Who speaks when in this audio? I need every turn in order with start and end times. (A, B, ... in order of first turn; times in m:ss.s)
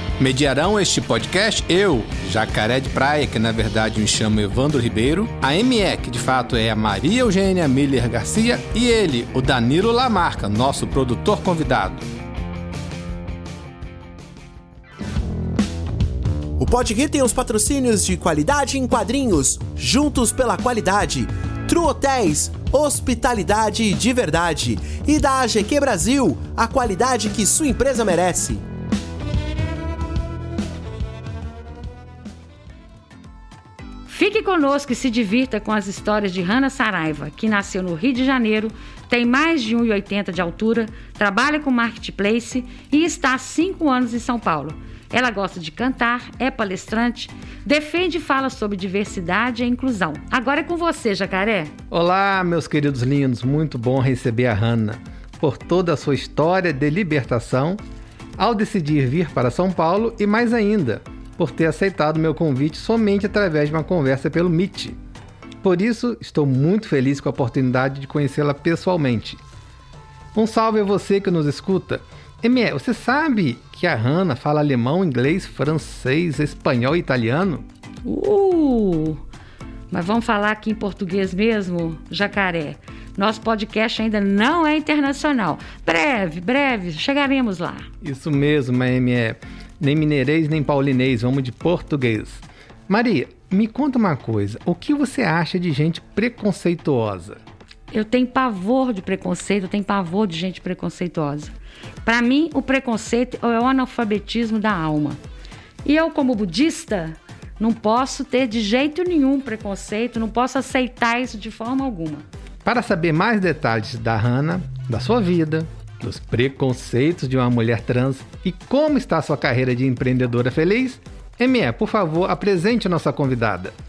0:00.2-0:12.0 A
0:16.6-0:28.6 B
0:34.1-0:51.7 C
0:51.9-0:57.8 A
0:58.4-1:05.0 A
1:05.6-1:09.4 A
1:10.4-1:17.6 A
1:18.0-1:19.2 C
1:19.9-1:27.9 C
1:28.0-1:37.4 A
1:37.9-1:41.5 C
1:42.0-1:45.2 C
1:45.8-1:52.3 C
1:52.6-2:03.7 A